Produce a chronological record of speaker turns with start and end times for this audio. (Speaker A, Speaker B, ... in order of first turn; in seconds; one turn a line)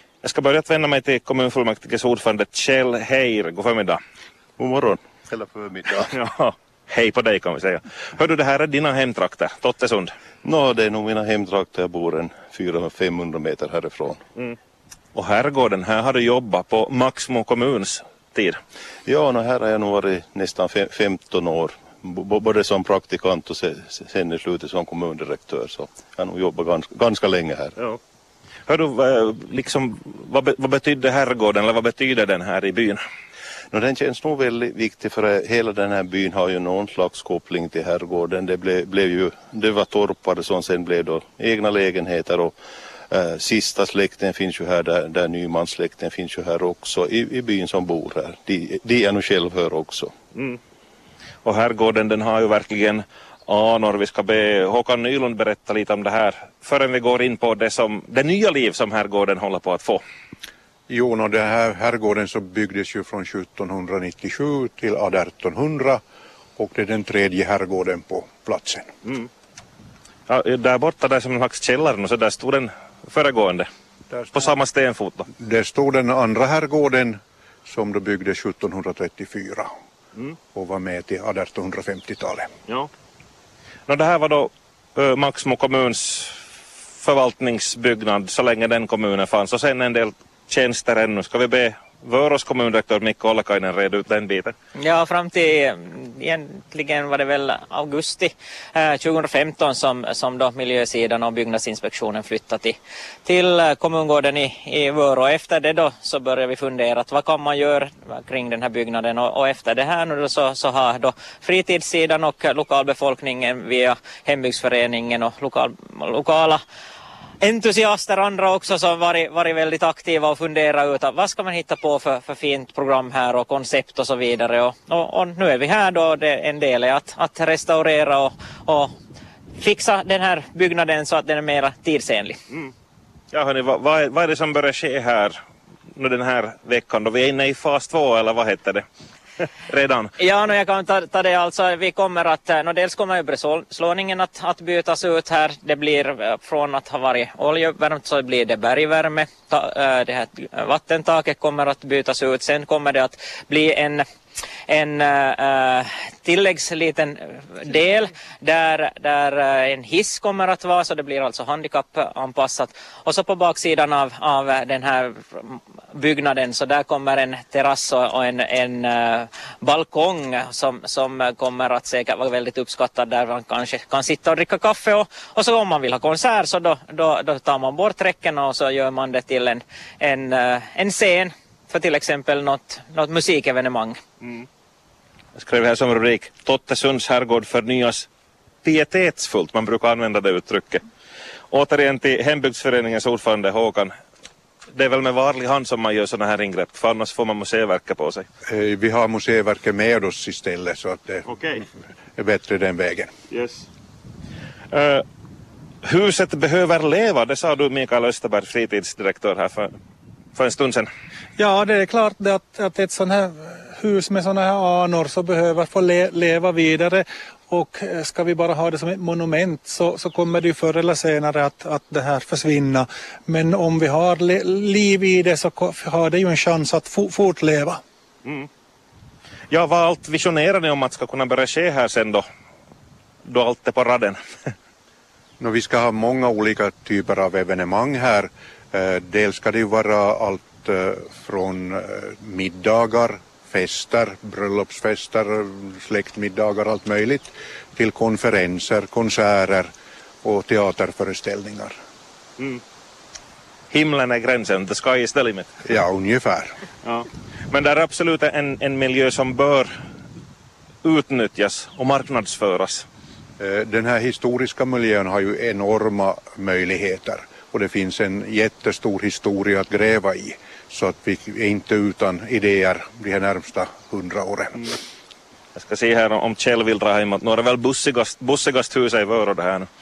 Speaker A: 0.2-4.0
Speaker B: 4.6-6.1
Speaker A: 6.1-10.1
Speaker B: 10.4-14.2
Speaker A: 15.1-18.6
Speaker B: 19.1-27.7
Speaker A: 28.7-33.0
Speaker B: 33.7-42.5
Speaker B: 43.1-50.1
Speaker A: 50.3-50.6
Speaker A: 51.4-60.0
Speaker C: 60.9-66.0
Speaker C: 66.6-68.9
Speaker A: 70.3-73.7
Speaker C: 74.1-74.5
Speaker A: 74.3-75.3
Speaker C: 75.4-79.7
Speaker C: 80.5-82.5
Speaker A: 83.9-86.4
Speaker A: 87.0-94.5
Speaker D: 94.8-116.6
Speaker D: 117.4-128.9
Speaker D: 129.6-132.4
Speaker A: 133.3-135.4
Speaker A: 135.9-138.8
Speaker A: 139.7-140.1
Speaker D: 140.2-154.1
Speaker D: 154.7-184.0
Speaker A: 185.4-188.1
Speaker A: 188.6-190.8
Speaker A: 191.5-193.9
Speaker A: 194.7-198.3
Speaker C: 198.5-201.3
Speaker A: 201.3-201.7
Speaker C: 202.2-203.1
Speaker A: 203.3-203.7
Speaker A: 204.7-205.0
Speaker A: 205.8-209.7
Speaker A: 210.3-210.9
Speaker E: 211.4-227.8
Speaker A: 229.5-232.2
Speaker A: 233.2-234.2
Speaker C: 235.4-249.7
Speaker C: 250.2-251.8
Speaker A: 253.7-255.5
Speaker C: 255.7-256.5
Speaker A: 256.8-259.7
Speaker A: 260.8-262.9
Speaker C: 263.4-274.8
Speaker A: 275.6-279.7